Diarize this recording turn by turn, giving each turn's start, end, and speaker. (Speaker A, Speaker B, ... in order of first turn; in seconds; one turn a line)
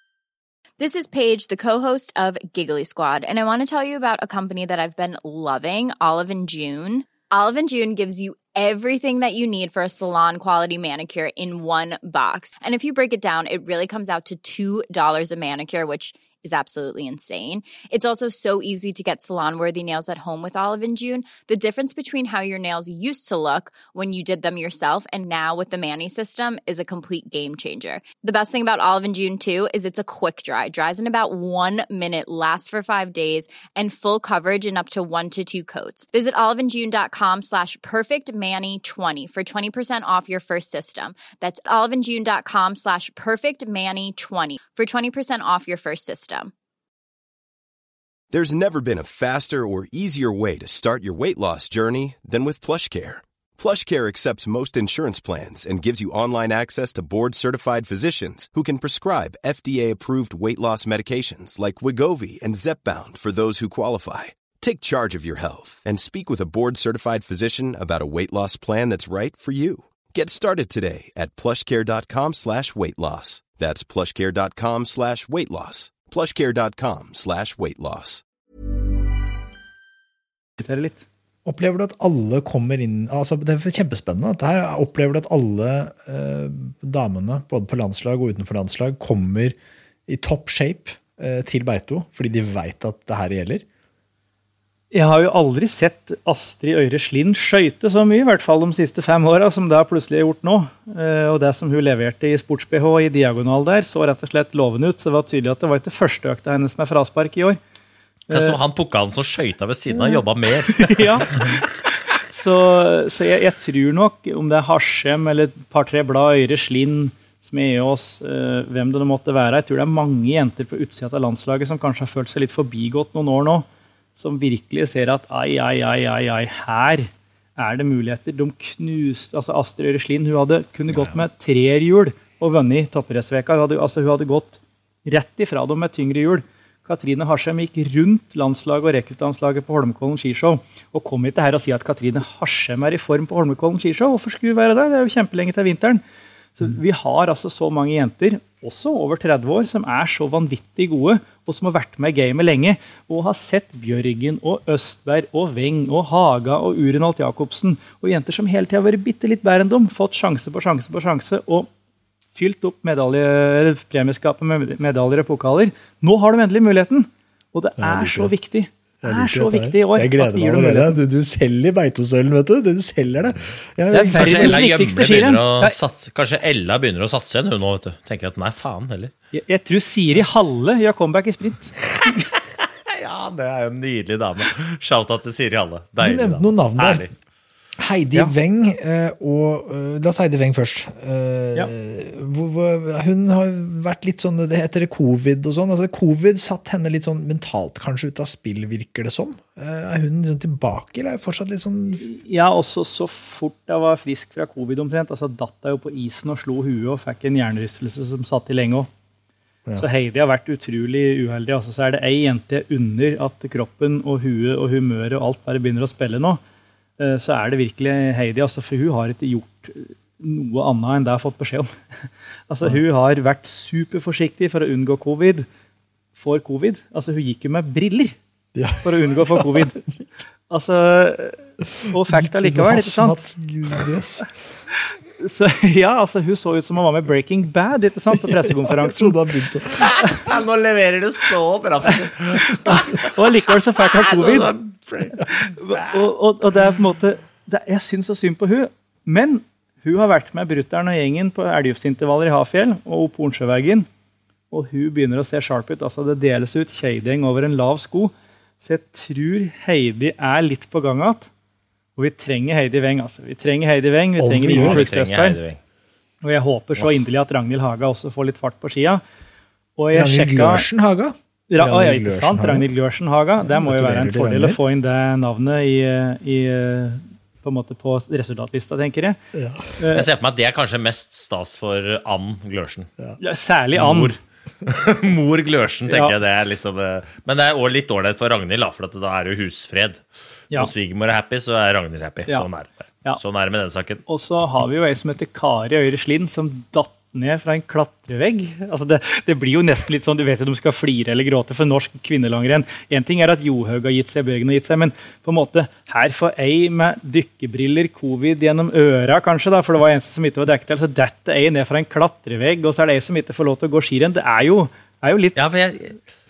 Speaker A: 0.8-46.5
Speaker B: 48.3-78.2
Speaker C: 80.6-81.0
Speaker D: 81.4-89.5
Speaker D: 90.1-93.6
Speaker C: 94.9-107.6
Speaker C: 108.3-108.5
Speaker E: 108.3-111.6
Speaker C: 110.0-146.0
Speaker C: 146.6-161.7
Speaker C: 162.3-171.0
Speaker D: 167.8-168.3
Speaker D: 169.0-174.7
Speaker C: 173.9-175.7
Speaker E: 174.1-179.1
Speaker C: 179.3-181.7
Speaker E: 181.9-187.1
Speaker D: 186.0-187.1
Speaker D: 187.8-202.1
Speaker C: 202.0-208.9
Speaker C: 209.8-216.4
Speaker C: 217.0-225.5
Speaker C: 226.1-228.2
Speaker D: 228.5-229.9
Speaker C: 228.8-229.8
Speaker C: 230.5-233.3
Speaker D: 232.1-234.3
Speaker C: 234.7-239.2
Speaker D: 238.2-239.9
Speaker E: 239.8-243.1
Speaker C: 242.3-244.5
Speaker E: 243.8-246.1
Speaker C: 245.2-253.9
Speaker C: 254.5-261.3
Speaker C: 261.9-265.4
Speaker D: 264.2-264.8
Speaker E: 264.5-265.6
Speaker C: 266.2-269.0
Speaker C: 269.8-270.6
Speaker D: 269.9-272.7
Speaker C: 271.5-279.2
Speaker D: 273.4-274.6
Speaker D: 279.3-279.7
Speaker C: 279.8-280.1
Speaker E: 279.9-282.9
Speaker C: 283.2-284.1
Speaker E: 283.7-290.0
Speaker C: 285.9-286.1
Speaker E: 290.5-294.0
Speaker C: 294.1-315.6
Speaker E: 315.4-316.0